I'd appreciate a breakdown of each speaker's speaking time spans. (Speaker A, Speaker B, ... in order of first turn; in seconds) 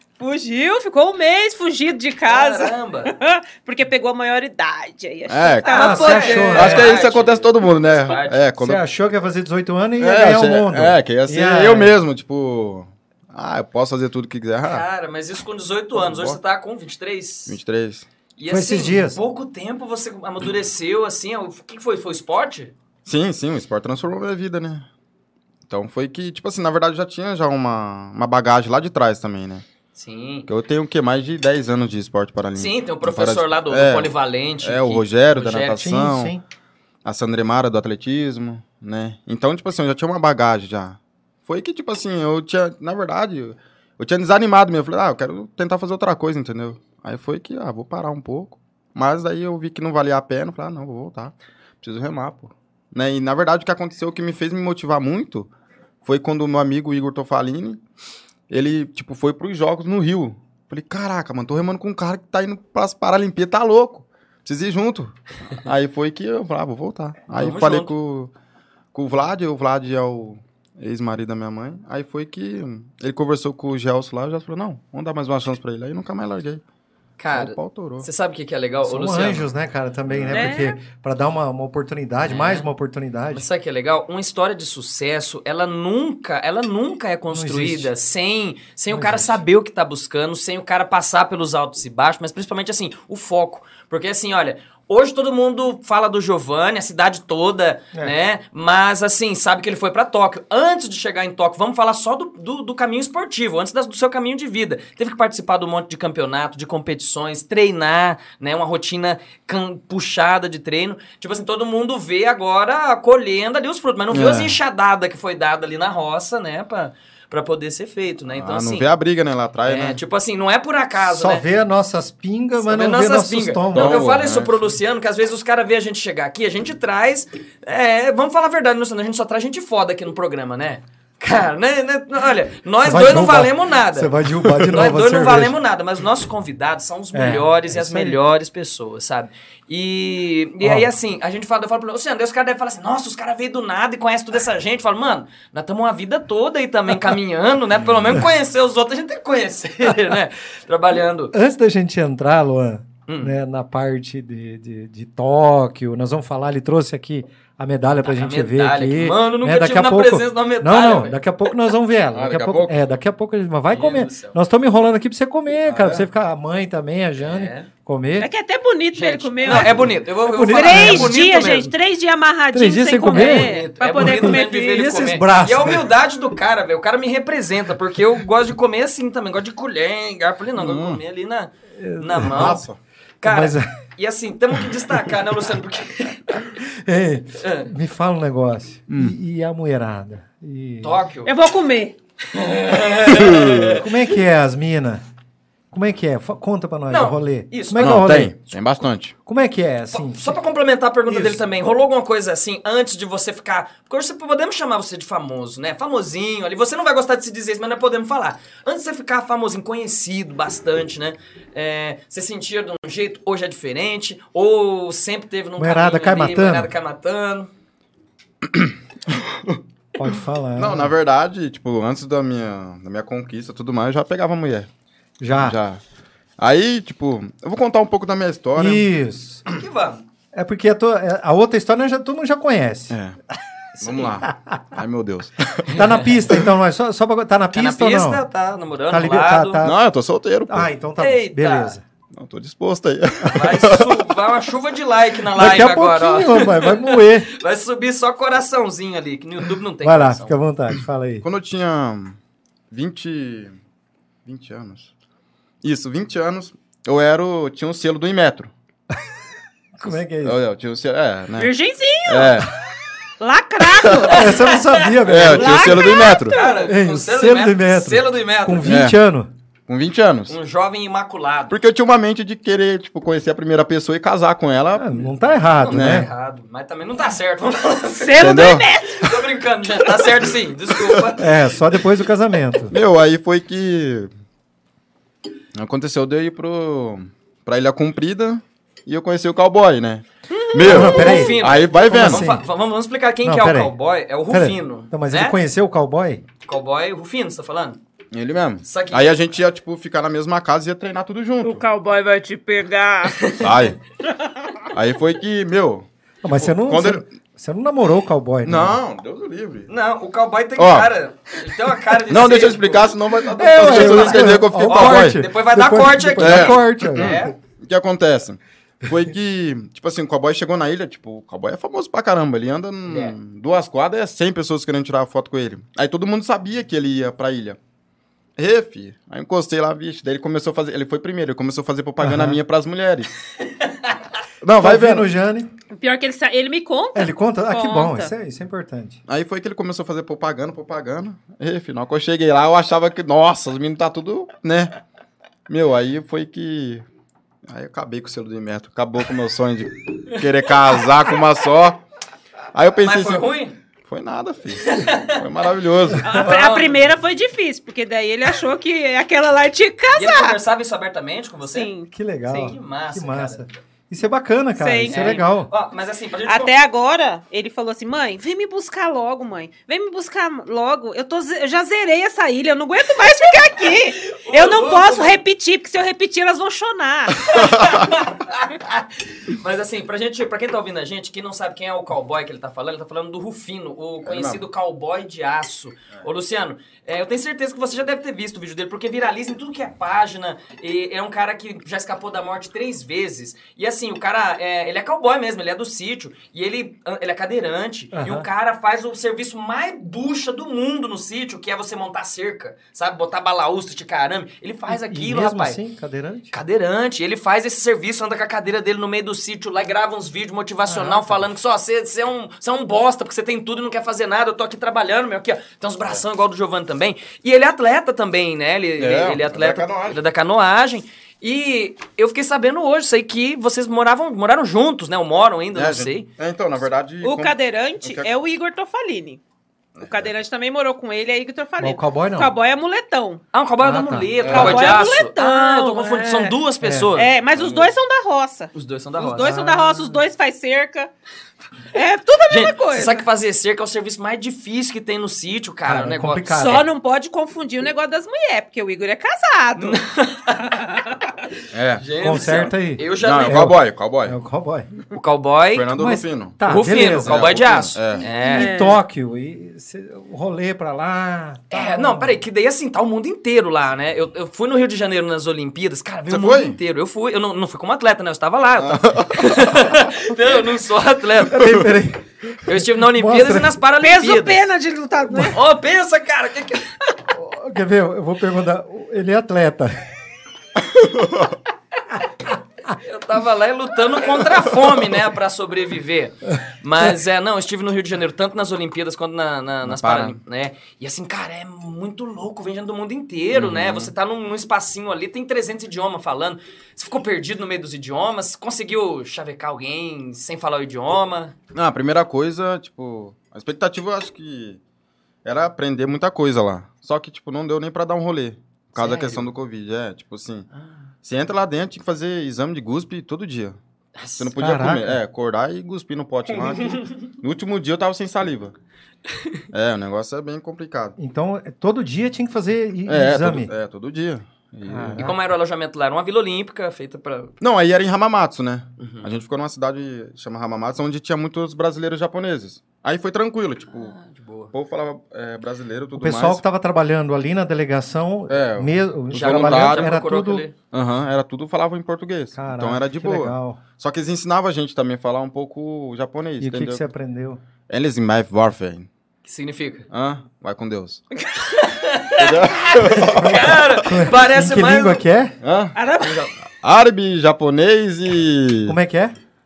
Speaker A: 0.2-6.8, 80.3-80.8, 168.2-169.8, 170.4-175.1, 191.3-191.9, 261.4-262.5, 263.2-266.7, 278.0-279.1, 301.4-303.3, 335.7-338.1, 356.0-360.4, 361.4-361.9, 364.6-365.3, 366.3-377.8, 427.0-429.2, 429.8-433.2, 434.2-436.4, 436.9-440.9, 441.7-443.1, 446.3-449.8, 450.5-451.1, 458.2-458.8, 473.8-475.4, 555.8-556.3
Speaker B: 2.3-3.1, 5.7-8.4, 14.6-17.6, 18.4-22.7, 29.9-30.5, 32.5-36.0, 67.3-67.9, 77.2-79.5, 82.2-82.7, 83.3-118.9, 119.7-121.5, 122.6-151.3, 153.1-153.4, 158.0-161.2, 163.7-164.4, 167.2-167.7, 168.9-171.7, 173.1-182.6, 183.2-186.5, 187.4-187.7, 190.8-191.3, 192.2-193.9, 196.9-198.1, 199.9-217.5, 229.5-230.0, 233.8-234.1, 235.7-236.1, 237.5-239.6, 241.0-241.8, 243.3-250.4, 264.1-264.9, 266.2-268.8, 270.3-271.6, 275.6-281.3, 290.3-295.4, 296.4-297.8, 298.6-299.1, 303.1-303.5, 309.7-317.4, 322.9-323.2, 333.6-334.0, 352.8-353.6, 354.6-355.2, 356.1-356.9, 359.9-361.7, 362.3-363.6, 364.9-366.5, 373.6-375.2, 377.3-405.6, 406.3-426.1, 433.3-437.1, 438.5-439.4, 442.3-446.4, 449.6-450.6, 451.8-453.5, 454.9-455.7, 456.5-458.7, 461.5-471.6, 472.4-474.4, 475.3-476.8, 482.8-501.4, 508.8-509.3, 514.0-514.3, 525.0-527.3, 528.8-529.1, 533.7-534.5, 539.1-540.6, 549.2-549.9, 551.4-555.0
Speaker C: 5.3-8.8, 10.0-14.8, 15.9-16.4, 17.5-18.1, 23.1-24.9, 25.7-29.6, 30.5-36.3, 37.0-55.5, 56.0-57.8, 58.5-68.3, 68.9-76.6, 77.3-78.1, 80.1-80.6, 114.1-114.6, 118.3-120.0, 123.7-124.8, 162.1-162.8, 165.7-166.1, 180.6-181.0, 182.2-182.8, 188.9-189.2, 193.1-193.8, 197.8-199.1, 218.4-219.6, 220.6-224.7, 225.3-225.8, 226.4-228.9, 232.9-233.2, 233.8-235.9, 239.6-240.7, 242.1-244.0, 251.2-252.2, 252.7-253.5, 254.2-254.9, 255.6-258.5, 259.8-261.5, 262.1-262.5, 263.7-264.1, 265.1-266.4, 268.6-269.0, 269.7-270.4, 271.5-275.1, 275.7-276.1, 278.2-278.7, 282.7-284.1, 285.6-292.2, 298.1-301.6, 303.4-303.8, 304.7-307.1, 308.4-309.7, 310.6-310.9, 312.1-315.2, 316.2-327.6, 328.4-333.1, 334.4-335.1, 339.1-344.7, 345.5-346.9, 347.5-351.8, 352.5-353.3, 353.8-356.2, 384.1-384.4, 418.8-420.0, 425.5-428.1, 429.8-430.1, 434.2-434.8, 437.4-437.7, 451.5-451.9, 453.0-454.2, 455.5-458.1, 466.1-466.6, 468.6-469.8, 480.7-481.3, 489.6-490.2, 493.3-493.9, 501.5-504.6, 505.2-510.5, 511.0-513.6, 514.2-518.5, 519.5-521.0, 522.9-525.2, 527.4-534.0, 534.5-536.4, 538.3-539.9, 540.7-546.8, 547.7-548.9, 549.9-551.0, 552.2-553.7, 555.4-558.8
Speaker D: 5.7-6.9, 8.6-12.0, 18.5-19.2, 35.8-36.4, 78.9-83.5, 87.3-87.9, 88.9-89.4, 121.0-124.1, 132.8-135.6, 137.1-138.2, 140.6-140.9, 151.3-168.3, 169.5-171.2, 172.5-175.9, 181.8-182.6, 183.2-183.7, 186.6-191.0, 193.7-195.0, 195.7-198.3, 199.3-200.4, 201.1-201.4, 215.6-216.7, 220.0-220.9, 225.2-225.6, 228.6-229.4, 230.3-233.0, 235.7-238.2, 238.9-239.8, 240.5-241.8, 245.3-247.3, 249.8-251.2, 259.8-260.4, 264.1-265.9, 266.6-269.3, 274.8-276.1, 281.2-282.7, 290.6-292.4, 293.2-293.7, 294.3-296.2, 306.2-308.8, 313.3-317.3, 332.0-332.4, 334.5-335.5, 336.9-339.0, 361.9-365.5, 397.9-398.3, 404.7-406.3, 410.7-411.3, 431.6-432.3, 433.6-434.1, 436.6-436.9, 439.2-440.0, 445.6-446.7, 452.0-454.7, 455.7-457.3, 458.2-462.2, 471.3-473.6, 475.1-475.4, 477.1-479.8, 514.4-515.0, 521.0-523.5, 524.7-525.1, 536.0-540.4, 542.4-543.6, 546.4-547.4, 553.1-555.4, 558.7-559.1